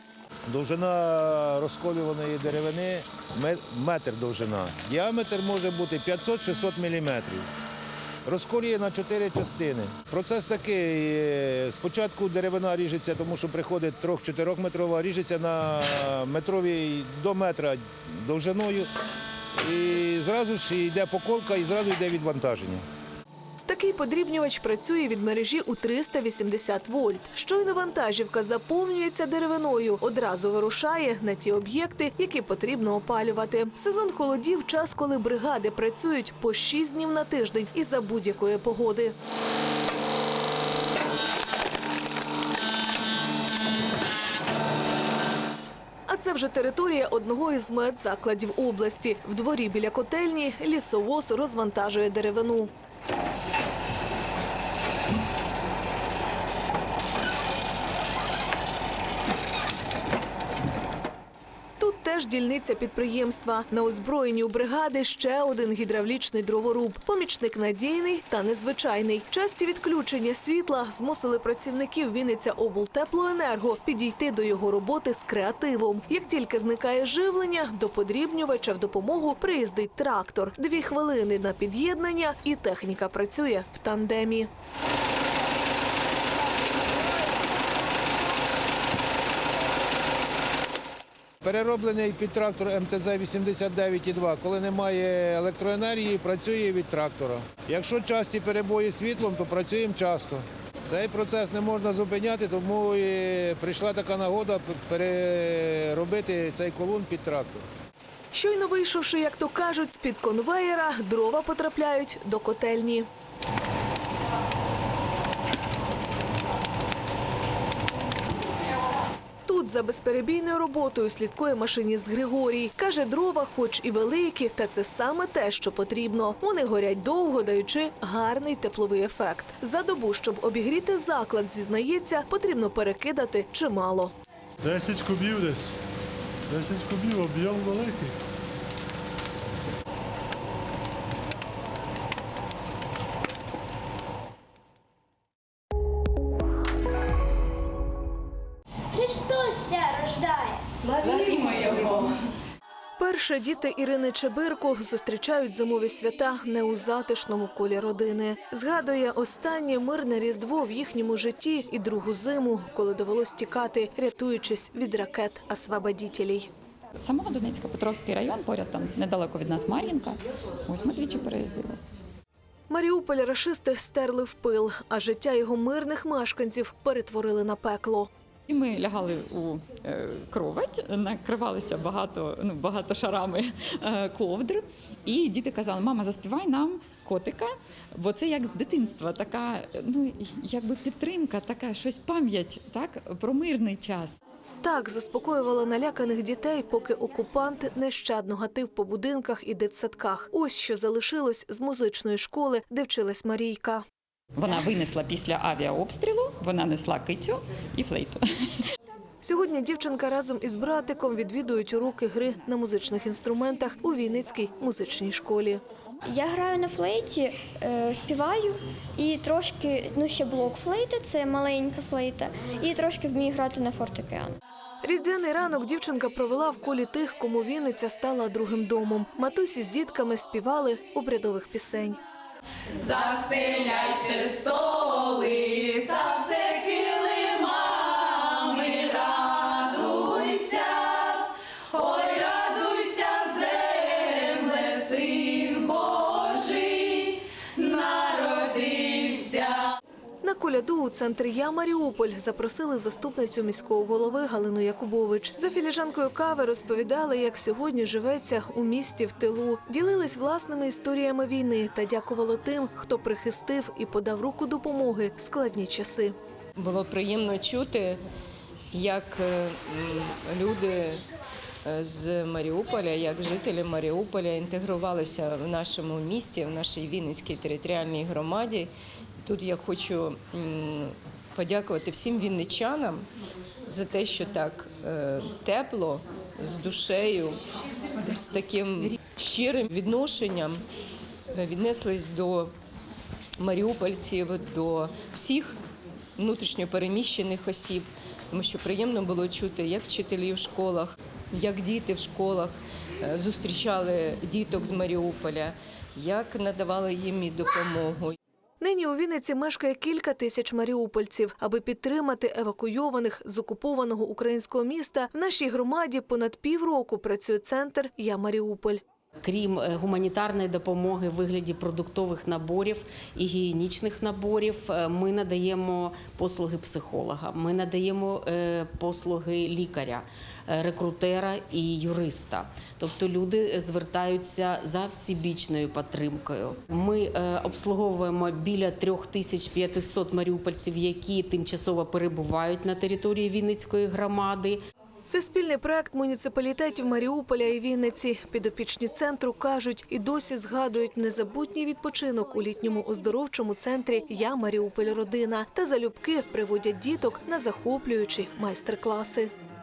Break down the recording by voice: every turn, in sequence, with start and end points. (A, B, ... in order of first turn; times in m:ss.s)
0:00.5-0:07.5 A
0:08.3-0:18.9 A
0:19.6-0:22.8 A
0:23.7-0:39.1 B
0:46.1-0:52.7 B
1:01.8-1:24.5 B
1:31.4-1:47.7 A
1:48.3-1:53.1 B
1:59.5-2:14.1 B
2:14.6-2:15.8 C
2:16.5-2:18.2 C
2:33.0-2:46.5 B
2:47.0-2:50.2 D
2:50.7-2:51.8 D
2:52.7-2:58.1 B
2:58.5-3:14.2 D
3:14.6-3:23.8 B
3:24.4-3:28.2 D
3:29.2-3:35.6 B
3:36.0-3:44.4 E
3:44.8-3:52.0 B
4:10.2-4:26.2 B
4:26.6-4:28.0 F
4:28.7-4:31.0 F
4:31.6-4:38.7 F
4:39.2-4:43.0 F
4:43.7-4:47.4 F
4:48.0-4:50.6 F
4:51.3-4:52.5 F
4:53.4-4:55.6 F
4:56.2-5:08.2 F
5:08.6-5:18.8 B
5:19.2-5:44.6 F
5:45.1-5:59.3 B